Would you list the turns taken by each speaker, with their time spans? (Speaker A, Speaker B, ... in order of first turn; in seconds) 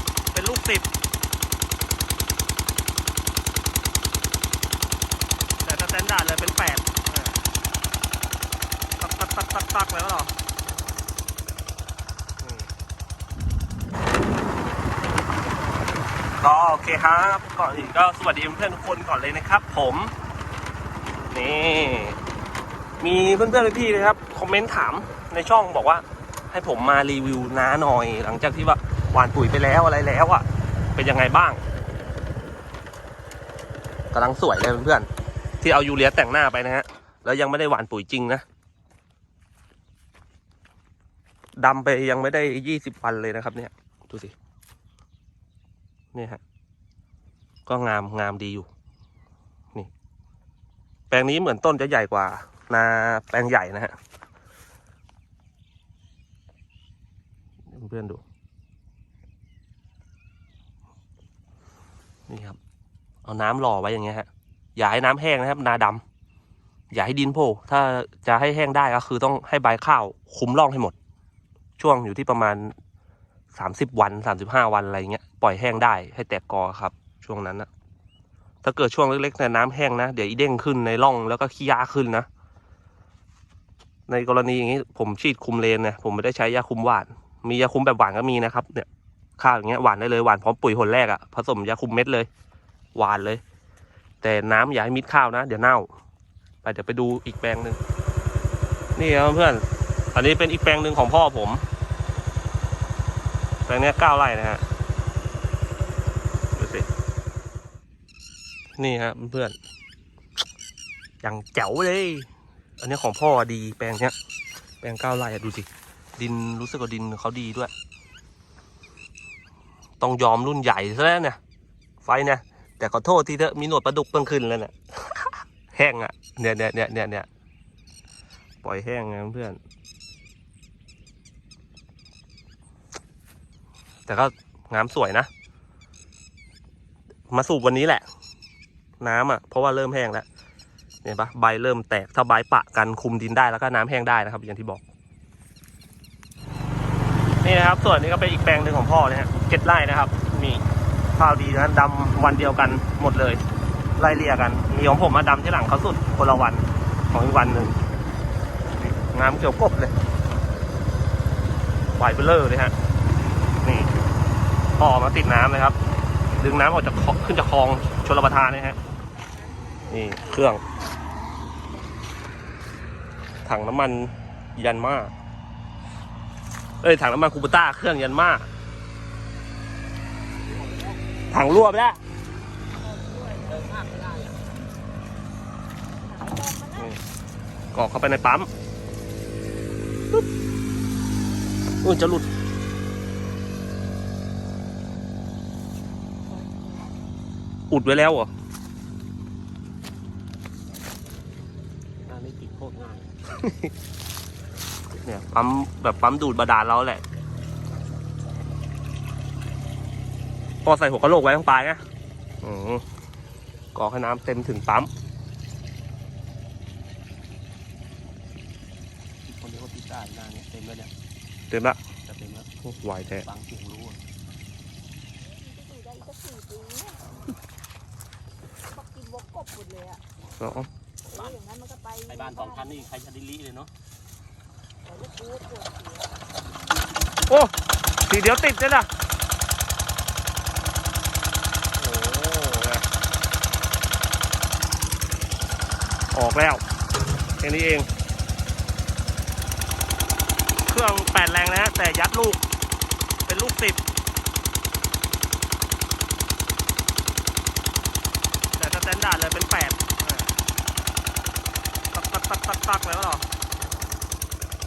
Speaker A: 0.3-0.9, 5.6-7.3, 9.0-10.3, 12.4-12.7, 16.4-20.1, 21.3-22.2, 23.0-31.6, 34.1-35.1, 35.6-38.4, 41.6-44.3, 46.1-46.4, 47.6-48.7, 51.1-53.9, 57.7-58.2, 62.3-62.6, 63.2-66.0, 66.9-70.9, 71.8-72.7, 73.5-77.7, 78.6-82.3, 84.1-92.3, 92.9-93.4, 94.2-95.9, 96.6-97.8, 99.0-101.6, 103.7-104.6, 106.5-106.9, 108.8-109.5, 111.2-114.1, 114.8-117.7, 120.0-121.4, 122.0-127.3, 128.6-129.6, 134.1-135.3, 137.3-138.0, 139.0-140.2, 141.0-144.8, 147.4-150.6, 151.1-153.4, 154.0-157.8, 158.8-159.9, 161.9-162.7, 163.6-163.9, 164.8-165.8, 166.4-168.8, 169.9-170.6, 173.4-175.1, 176.8-178.5, 181.3-182.0, 186.7-187.0, 187.7-188.5, 191.8-192.2, 197.7-198.3, 203.3-203.7, 204.9-207.0, 210.6-211.8, 212.4-212.8, 213.7-214.9, 221.5-221.8, 222.6-223.3, 230.4-230.7, 238.1-238.9, 241.8-242.8, 246.1-246.6, 247.4-247.9, 250.7-252.4, 253.3-253.8, 258.6-260.3, 261.9-263.2
Speaker B: 182.8-184.0, 186.1-186.8, 196.4-196.9, 225.3-227.1, 228.7-230.0, 231.1-232.8, 234.8-236.2
Speaker C: 183.5-184.3, 202.0-203.1, 219.2-220.9, 222.0-222.5, 223.2-224.0, 231.1-231.4, 232.1-233.7